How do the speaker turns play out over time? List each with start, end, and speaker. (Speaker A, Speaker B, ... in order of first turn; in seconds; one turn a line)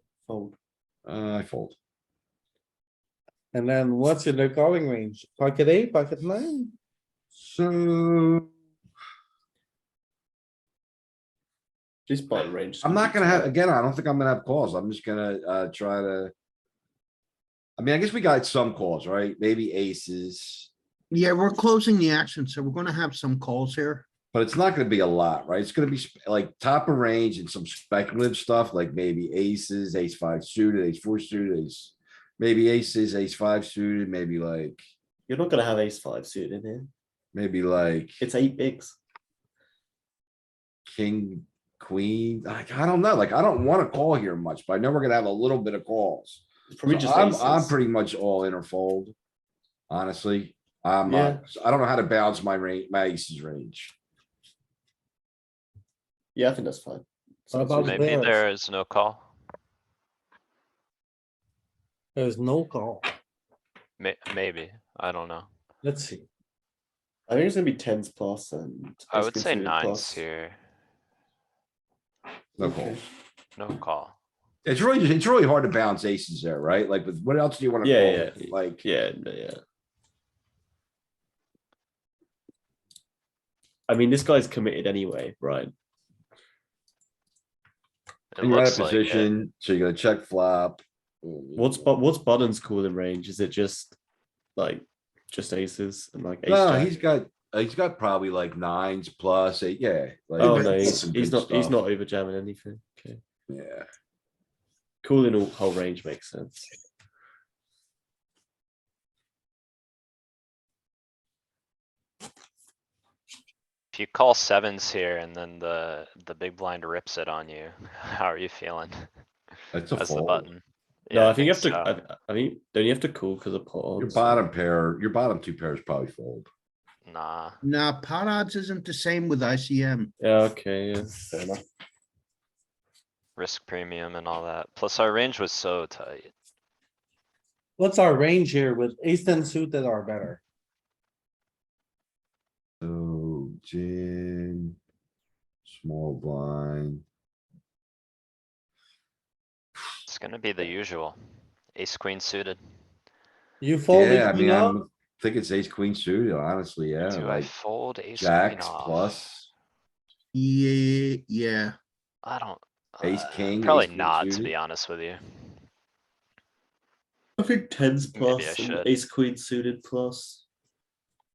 Speaker A: 0.2-0.6
Speaker B: 1.1-1.7
Speaker C: 3.5-6.7
Speaker B: 7.3-8.5
Speaker A: 12.1-13.5
Speaker B: 12.8-16.3
Speaker B: 17.8-20.7
Speaker D: 21.1-24.0
Speaker B: 24.3-34.8
Speaker A: 35.3-36.9
Speaker B: 37.3-38.2
Speaker A: 38.2-38.9
Speaker B: 40.9-49.1
Speaker A: 46.7-47.7
Speaker B: 49.9-53.9
Speaker A: 51.1-51.4
Speaker A: 56.4-58.1
Speaker C: 57.5-58.4
Speaker E: 57.8-59.2
Speaker C: 62.1-63.1
Speaker E: 64.0-65.5
Speaker C: 65.8-66.3
Speaker A: 67.3-70.2
Speaker E: 69.1-70.6
Speaker B: 72.6-73.0
Speaker A: 72.6-73.0
Speaker E: 73.5-74.1
Speaker B: 74.6-78.8
Speaker A: 77.8-79.6
Speaker A: 83.9-85.7
Speaker E: 88.3-89.3
Speaker B: 88.4-91.9
Speaker A: 91.6-93.9
Speaker A: 94.5-96.9
Speaker B: 96.5-101.8
Speaker A: 100.4-103.2
Speaker D: 100.4-101.0
Speaker B: 103.5-103.9
Speaker A: 105.0-106.7
Speaker E: 113.9-119.1
Speaker B: 119.7-120.5
Speaker E: 120.0-121.9
Speaker A: 121.2-124.3
Speaker B: 124.0-126.5
Speaker E: 127.0-127.6
Speaker D: 127.6-130.1
Speaker A: 130.2-131.6
Speaker E: 133.4-136.3
Speaker C: 137.8-140.4
Speaker B: 142.8-144.7
Speaker B: 145.7-147.0
Speaker E: 150.1-151.2
Speaker E: 151.7-152.6
Speaker C: 153.6-154.8
Speaker B: 153.9-157.5
Speaker E: 157.1-159.2
Speaker B: 158.2-159.5
Speaker D: 160.3-161.7
Speaker E: 162.2-165.6
Speaker B: 163.0-164.5
Speaker A: 167.4-170.4
Speaker E: 168.1-168.9